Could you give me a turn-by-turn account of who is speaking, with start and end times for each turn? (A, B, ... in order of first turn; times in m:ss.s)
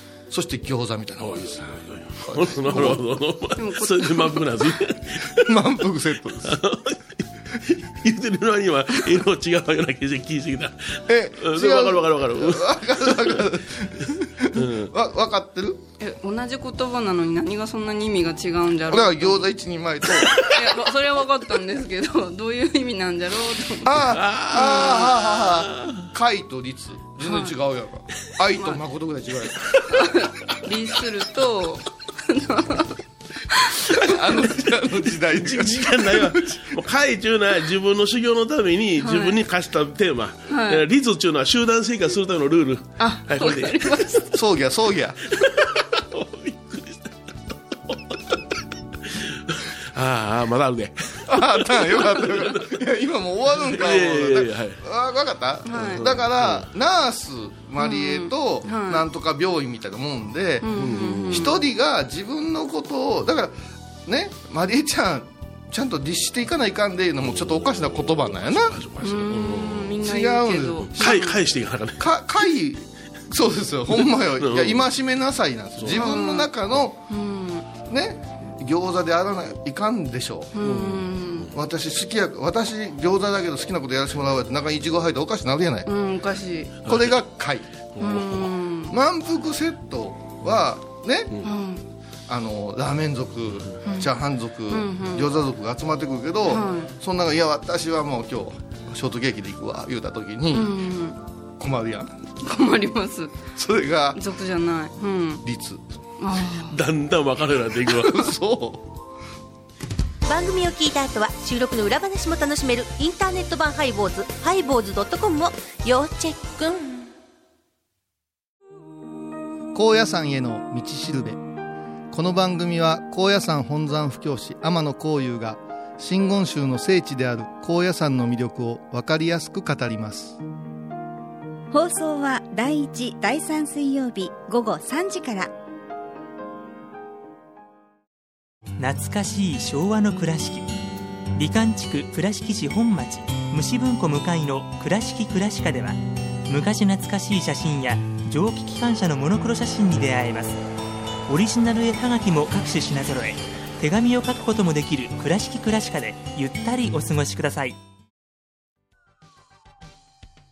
0:00.3-0:03.0 A
0:01.2-0:05.8 B
0:03.6-0:04.6 C
0:05.3-0:06.6 A
0:06.4-0:14.9 B
0:11.1-0:15.8 A
0:16.0-0:19.4 C
0:18.9-0:20.6 A
0:20.3-0:24.0 C
0:23.8-0:29.8 A
0:24.1-0:26.0 B
0:24.5-0:25.1 C
0:27.2-0:27.6 C
0:28.5-0:28.8 C
0:29.9-0:32.9 C
0:33.6-0:33.9 C
0:33.8-0:36.7 A
0:35.0-0:44.2 B
0:39.0-0:39.4 C
0:40.5-0:40.8 C
0:43.0-0:44.4 C
0:44.3-0:45.3 A
0:45.3-0:47.2 B
0:47.7-0:48.4 B
0:49.0-0:52.8 B
0:51.3-1:03.5 A
0:53.5-0:54.8 B
0:55.6-0:56.0 C
0:55.7-0:56.7 B
0:57.8-0:59.0 C
1:00.6-1:01.6 C
1:00.7-1:01.5 B
1:04.0-1:08.8 A
1:07.4-1:10.0 B
1:09.0-1:11.4 C
1:10.0-1:11.3 A
1:11.0-1:12.2 B
1:12.0-1:17.0 A
1:14.4-1:14.8 B
1:15.8-1:16.0 B
1:15.9-1:16.5 C
1:17.1-1:17.8 C
1:17.8-1:20.5 A
1:20.5-1:21.5 C
1:20.6-1:21.5 B
1:21.5-1:25.9 A
1:25.8-1:26.8 C
1:26.8-1:27.7 A
1:27.9-1:28.6 B
1:28.0-1:28.9 C
1:28.9-1:31.3 A
1:31.4-1:31.9 C
1:32.3-1:40.8 A
1:33.8-1:34.1 C
1:34.7-1:35.3 C
1:36.4-1:36.9 C
1:40.5-1:41.2 C
1:41.6-1:42.2 A
1:42.4-1:43.4 C
1:43.5-1:44.2 A
1:44.1-1:45.4 C
1:45.4-1:45.8 A
1:46.2-1:46.8 C
1:46.5-1:48.3 B
1:48.0-1:48.8 A
1:50.2-1:57.1 D
1:59.7-2:01.4 A
2:02.1-2:10.4 A
2:11.7-2:15.5 E
2:18.8-2:20.6 F
2:21.3-2:30.6 F
2:31.3-2:37.8 F